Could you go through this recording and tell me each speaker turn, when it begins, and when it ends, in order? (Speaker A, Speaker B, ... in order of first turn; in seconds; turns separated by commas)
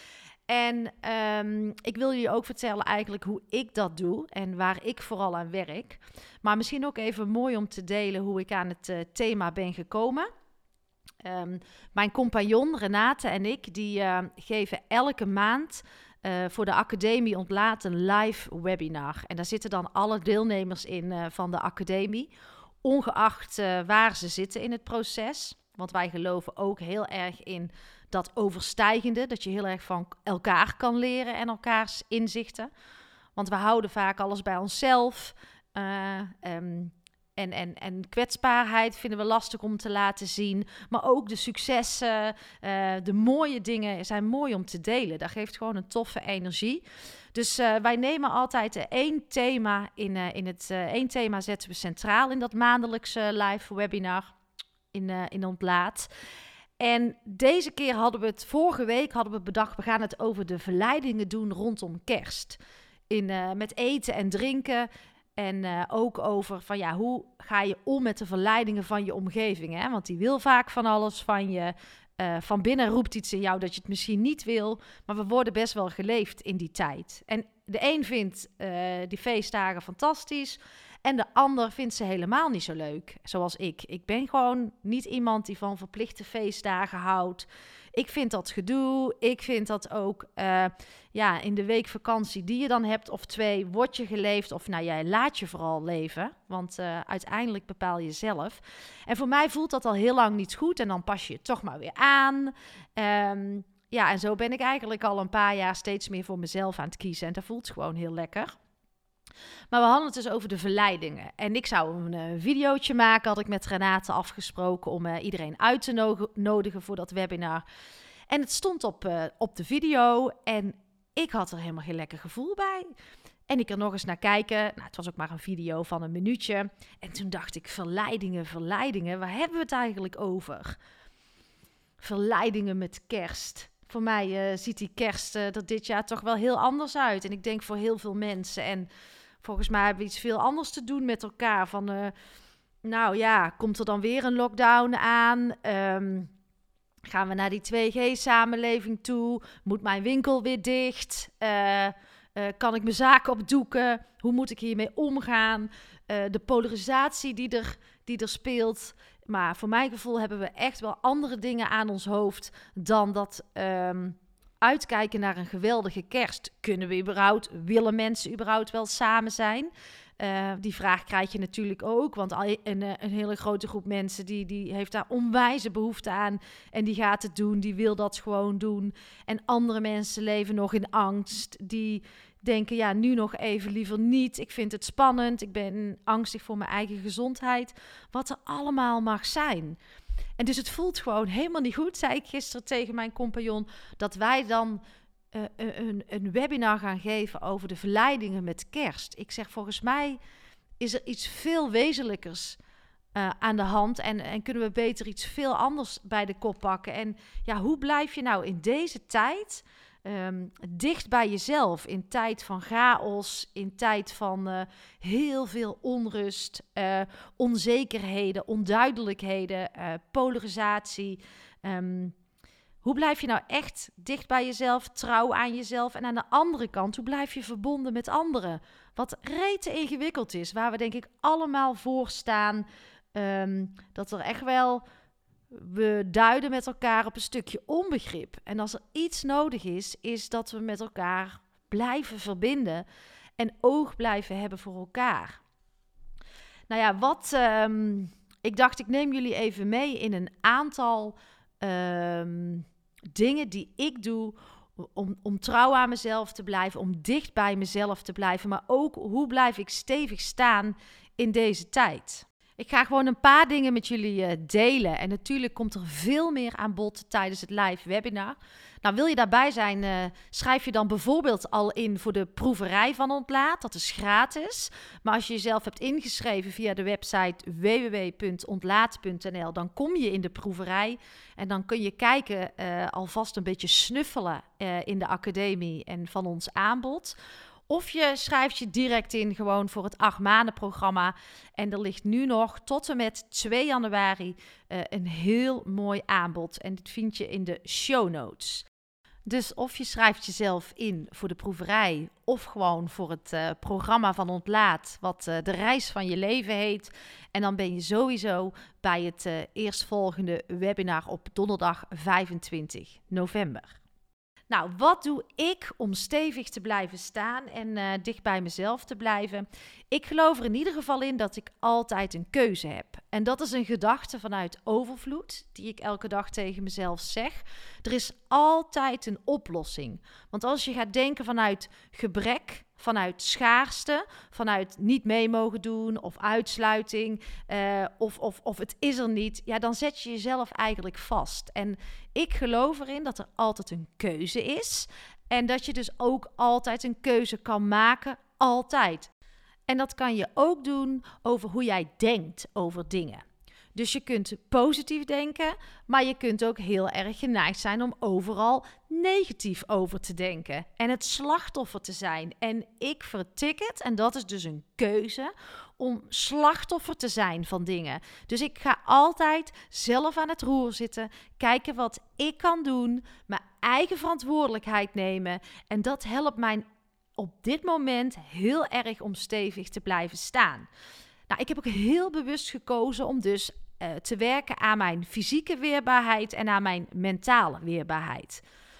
Speaker A: 0.5-10.3, Speaker A: 11.2-22.3, Speaker A: 22.8-32.7, Speaker A: 33.4-46.8, Speaker A: 47.3-54.3, Speaker A: 54.9-56.1, Speaker A: 56.8-62.6, Speaker A: 63.1-108.5, Speaker A: 109.7-117.6, Speaker A: 118.3-122.9, Speaker A: 123.5-130.8, Speaker A: 132.0-138.9, Speaker A: 139.4-142.1, Speaker A: 142.8-146.3, Speaker A: 147.1-189.8, Speaker A: 190.4-200.2, Speaker A: 200.8-202.6, Speaker A: 203.2-222.2, Speaker A: 222.8-234.8, Speaker A: 235.5-242.8, Speaker A: 243.4-245.4, Speaker A: 246.7-287.2, Speaker A: 287.7-298.7, Speaker A: 299.3-313.8, Speaker A: 314.5-349.1, Speaker A: 349.7-376.7, Speaker A: 377.2-380.7, Speaker A: 381.3-388.4